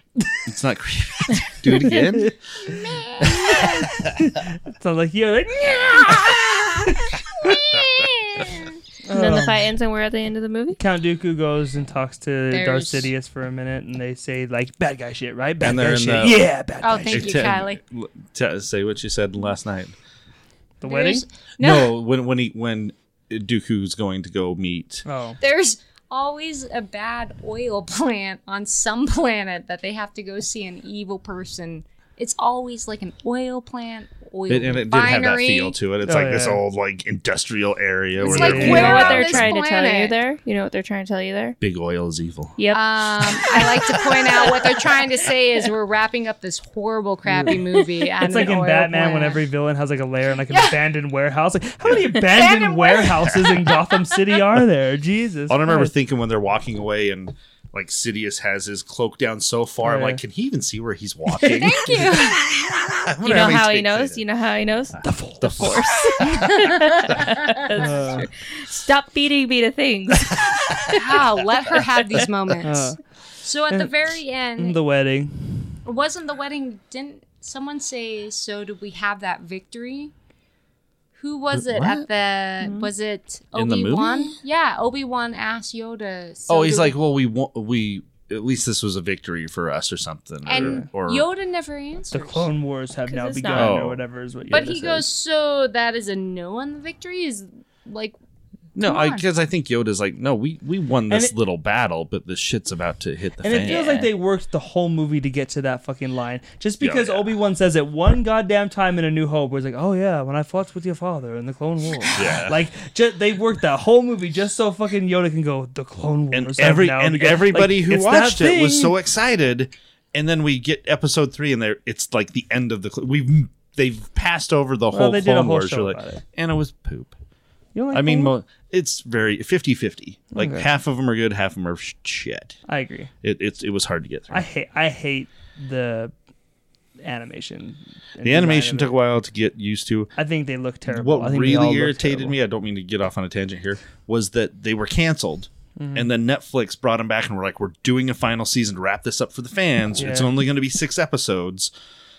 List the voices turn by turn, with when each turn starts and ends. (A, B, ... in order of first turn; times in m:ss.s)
0:00.4-0:02.4 A
0:01.7-0:07.6 B
0:02.6-0:04.0 C
0:05.7-0:06.4 C
0:07.3-0:08.8 C
0:07.7-0:08.0 A
0:09.0-0:09.6 B
0:09.1-0:10.8 D
0:10.8-0:17.5 B
0:12.5-0:13.1 C
0:15.6-0:16.4 A
0:16.8-0:17.8 C
0:17.0-0:19.9 A
0:20.8-0:21.2 B
0:20.8-0:22.0 C
0:21.6-0:25.0 A
0:25.0-0:25.4 B
0:25.4-0:35.8 C
0:34.5-0:39.5 A
0:36.0-0:36.6 B
0:38.2-0:40.2 C
0:38.2-0:39.0 B
0:38.5-0:41.6 D
0:41.6-0:42.6 A
0:42.7-0:49.4 C
0:43.2-0:44.5 A
0:47.3-0:47.6 B
0:48.2-0:55.9 B
0:50.5-0:50.8 C
0:51.8-0:52.1 A
0:52.2-0:53.8 C
0:55.5-1:04.2 A
0:59.8-1:00.2 B
1:01.3-1:02.6 B
1:01.4-1:02.4 C
1:03.2-1:10.9 D
1:05.0-1:06.2 B
1:05.4-1:07.3 A
1:06.3-1:07.5 C
1:07.8-1:08.3 B
1:10.5-1:10.9 A
1:10.9-1:14.8 C
1:12.6-1:13.0 B
1:14.6-1:15.8 B
1:15.8-1:20.1 C
1:21.2-1:27.0 C
1:21.5-1:22.1 A
1:23.5-1:24.4 A
1:26.5-1:31.2 A
1:30.4-1:32.5 C
1:30.6-1:30.8 B
1:32.1-1:35.0 B
1:33.1-1:33.8 D
1:33.5-1:34.0 A
1:34.5-1:38.2 C
1:38.7-1:44.1 A
1:38.8-1:39.2 C
1:43.4-1:58.9 B
1:46.8-1:47.3 A
1:52.1-1:52.6 A
1:56.3-2:07.2 A
2:04.9-2:06.2 B
2:07.7-2:08.4 B
2:07.9-2:12.6 A
2:10.3-2:10.7 B
2:12.7-2:13.1 B
2:13.2-2:14.4 A
2:14.3-2:16.1 B
2:17.0-2:18.9 B
2:18.2-2:20.1 A
2:20.2-2:22.3 B
2:20.8-2:31.7 A
2:25.8-2:26.1 B
2:30.0-2:30.3 B